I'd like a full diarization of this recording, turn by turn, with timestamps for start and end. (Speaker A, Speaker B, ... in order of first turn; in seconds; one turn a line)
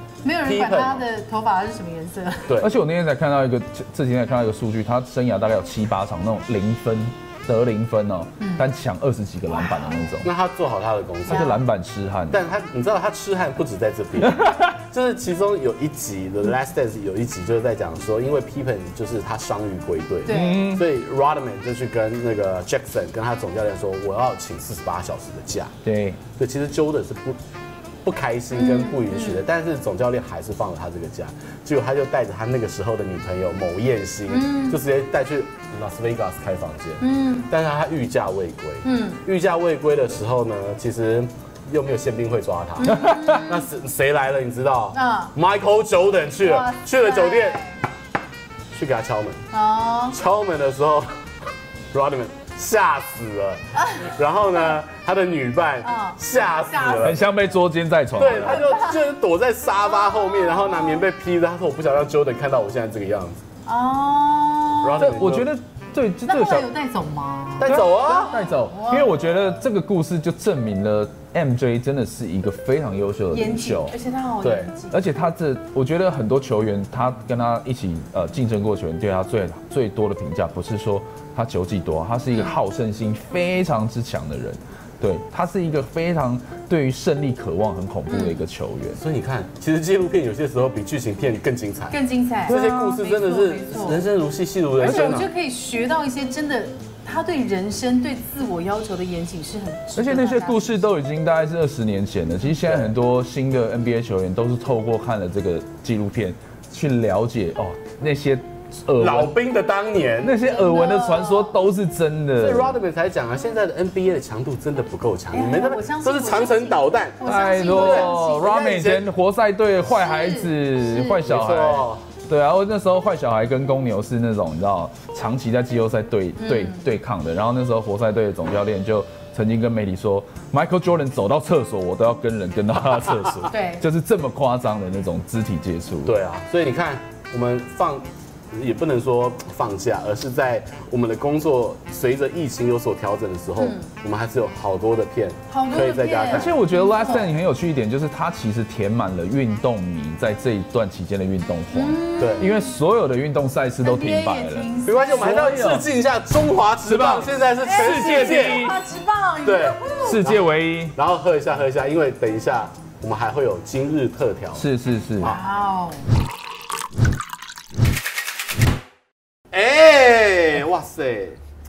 Speaker A: 0.2-2.6
Speaker B: 0.4-1.1
Speaker B: 2.5-2.8
Speaker C: 2.6-10.3
Speaker A: 8.4-8.7
Speaker A: 9.5-10.2
Speaker B: 10.2-11.6
Speaker C: 11.3-12.4
Speaker A: 11.3-11.6
Speaker B: 12.3-25.7
Speaker C: 14.3-14.7
Speaker A: 20.3-20.7
Speaker C: 20.3-20.8
Speaker C: 25.9-26.2
Speaker B: 26.4-27.4
Speaker B: 28.0-47.6
Speaker A: 28.5-29.4
Speaker A: 34.3-34.8
Speaker A: 37.0-37.5
Speaker A: 38.8-39.2
Speaker A: 42.8-43.7
Speaker A: 44.9-45.3
Speaker A: 46.4-47.8
Speaker B: 48.7-49.4
Speaker A: 49.5-50.2
Speaker B: 50.1-51.1
Speaker B: 51.9-57.2
Speaker A: 53.8-54.1
Speaker A: 55.8-57.4
Speaker C: 57.0-58.6
Speaker B: 58.1-63.4
Speaker A: 58.2-59.0
Speaker A: 59.8-61.0
Speaker A: 63.7-65.1
Speaker B: 64.8-65.5
Speaker C: 65.0-66.7
Speaker A: 66.3-69.2
Speaker B: 67.6-68.3
Speaker C: 67.6-74.0
Speaker A: 73.3-75.2
Speaker B: 74.4-74.7
Speaker C: 74.9-89.0
Speaker A: 88.1-88.4
Speaker B: 89.0-95.3
Speaker A: 91.9-94.0
Speaker C: 92.5-92.9
Speaker A: 94.8-100.8
Speaker C: 94.8-95.2
Speaker C: 100.0-109.3
Speaker B: 102.6-103.0
Speaker B: 109.0-110.4
Speaker C: 110.2-112.7
Speaker A: 110.3-111.6
Speaker B: 112.4-119.1
Speaker A: 115.3-118.5
Speaker C: 117.2-136.1
Speaker A: 119.9-121.2
Speaker B: 121.2-122.1
Speaker A: 126.4-126.9
Speaker A: 133.5-133.8
Speaker B: 136.1-146.6
Speaker A: 143.6-143.9
Speaker A: 145.5-147.3
Speaker C: 146.3-155.9
Speaker A: 151.7-152.7
Speaker B: 152.2-152.5
Speaker A: 153.8-155.5
Speaker B: 154.9-158.8
Speaker C: 156.8-158.8
Speaker A: 157.6-160.3
Speaker B: 159.4-164.7
Speaker C: 160.1-161.0
Speaker C: 164.6-165.4
Speaker A: 165.2-166.1
Speaker B: 169.5-171.4